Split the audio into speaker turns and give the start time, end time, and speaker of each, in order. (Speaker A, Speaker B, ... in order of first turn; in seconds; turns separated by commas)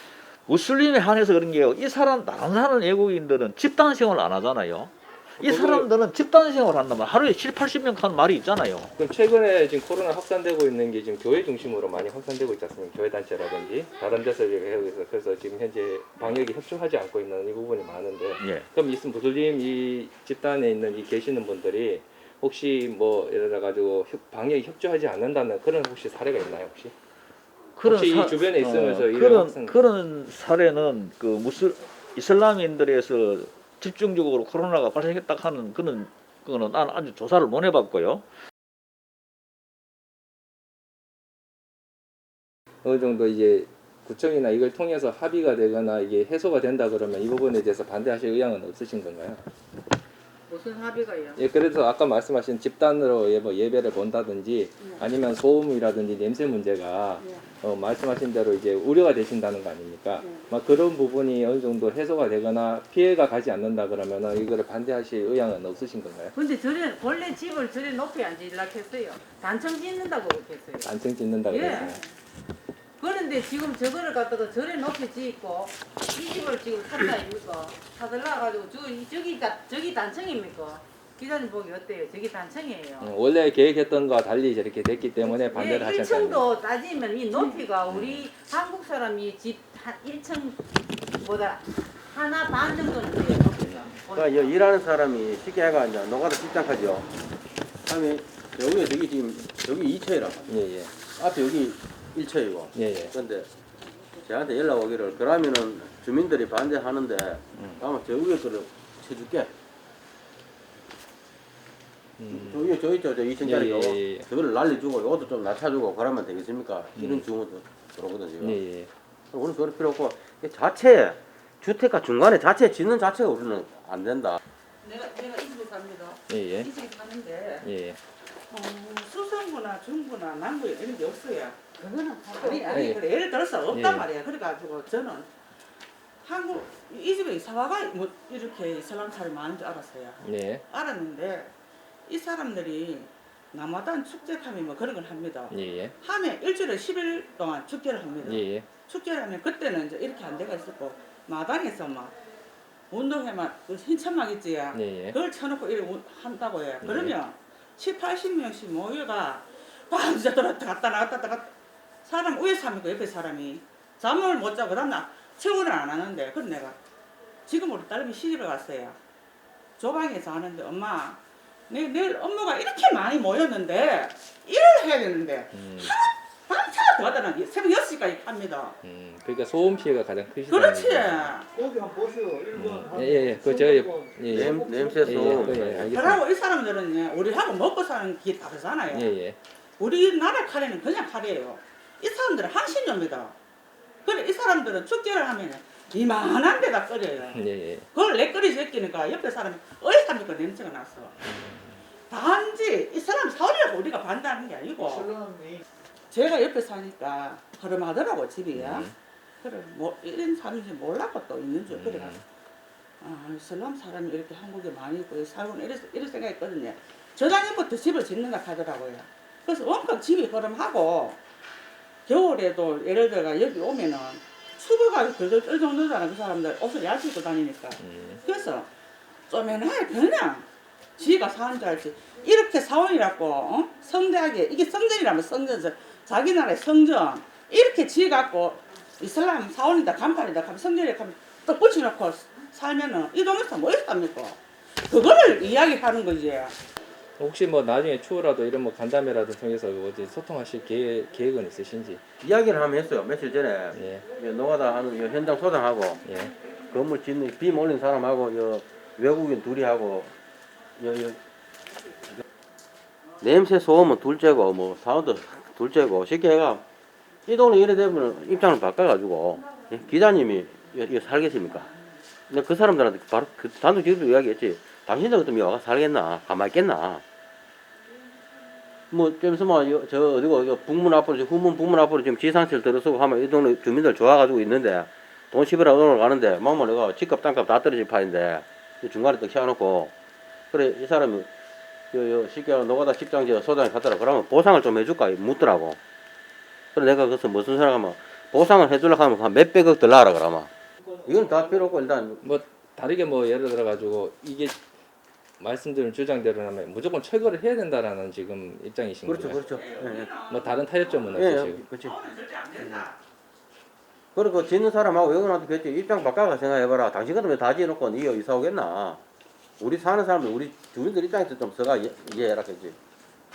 Speaker A: 0.5-8.9, Speaker B: 5.4-5.9, Speaker B: 9.0-26.9, Speaker A: 18.4-18.6, Speaker A: 27.8-38.2, Speaker B: 27.8-29.8, Speaker B: 42.8-49.4, Speaker C: 50.5-51.4, Speaker B: 51.4-66.3, Speaker C: 66.3-70.9, Speaker B: 70.8-72.0, Speaker C: 71.5-72.0, Speaker C: 73.0-83.1, Speaker B: 83.0-86.5, Speaker C: 85.2-90.6, Speaker B: 87.9-88.2, Speaker C: 91.1-94.7, Speaker B: 93.6-93.9, Speaker D: 94.1-97.1, Speaker D: 97.8-100.4, Speaker B: 100.5-100.9, Speaker D: 101.0-103.5, Speaker B: 102.7-103.1, Speaker D: 104.2-109.5, Speaker B: 107.5-107.8, Speaker B: 112.2-112.8, Speaker D: 112.3-118.6, Speaker B: 113.4-114.3, Speaker B: 117.0-117.3, Speaker B: 118.4-118.9, Speaker D: 119.3-124.4, Speaker E: 124.8-127.6, Speaker B: 126.3-126.7, Speaker B: 127.6-128.0, Speaker E: 128.5-131.6, Speaker C: 131.8-132.9, Speaker E: 132.2-135.3, Speaker B: 132.7-133.0, Speaker B: 133.7-134.1, Speaker E: 136.2-140.2, Speaker B: 140.2-140.6, Speaker E: 140.7-141.5, Speaker E: 142.1-152.1, Speaker B: 145.5-145.9, Speaker B: 148.2-148.7, Speaker E: 152.9-161.5, Speaker B: 154.7-155.2, Speaker B: 156.8-157.2, Speaker E: 162.0-166.8, Speaker E: 167.5-169.0, Speaker E: 169.8-178.7, Speaker B: 175.5-175.9, Speaker B: 178.8-181.3, Speaker E: 180.5-181.4, Speaker A: 181.5-185.9, Speaker B: 182.5-186.2, Speaker D: 184.3-186.1, Speaker E: 185.9-189.1, Speaker B: 188.9-189.4, Speaker E: 189.8-193.3, Speaker E: 194.0-201.1, Speaker B: 197.2-197.9, Speaker B: 201.2-201.8, Speaker E: 202.1-205.1, Speaker A: 204.8-205.6, Speaker E: 206.1-208.9, Speaker B: 208.5-208.9, Speaker E: 209.4-212.2, Speaker B: 211.7-212.2, Speaker E: 213.0-221.2, Speaker E: 222.1-228.7, Speaker B: 227.8-228.2, Speaker E: 229.3-230.4, Speaker E: 231.0-246.5, Speaker B: 247.2-252.0, Speaker D: 252.2-256.0, Speaker B: 253.7-254.0, Speaker B: 256.0-256.3, Speaker D: 256.7-260.1, Speaker D: 260.8-261.2, Speaker D: 263.2-266.6, Speaker D: 267.2-271.7, Speaker D: 272.3-277.0, Speaker D: 278.9-289.9, Speaker D: 290.5-291.3, Speaker D: 291.9-295.8, Speaker D: 296.7-300.5, Speaker D: 301.0-302.4, Speaker B: 302.2-304.6, Speaker B: 305.4-309.6, Speaker D: 309.1-310.1, Speaker E: 309.5-311.1, Speaker B: 310.2-311.6, Speaker D: 311.1-312.0, Speaker E: 311.8-313.0, Speaker D: 312.6-312.9, Speaker D: 314.1-319.0, Speaker D: 319.6-322.8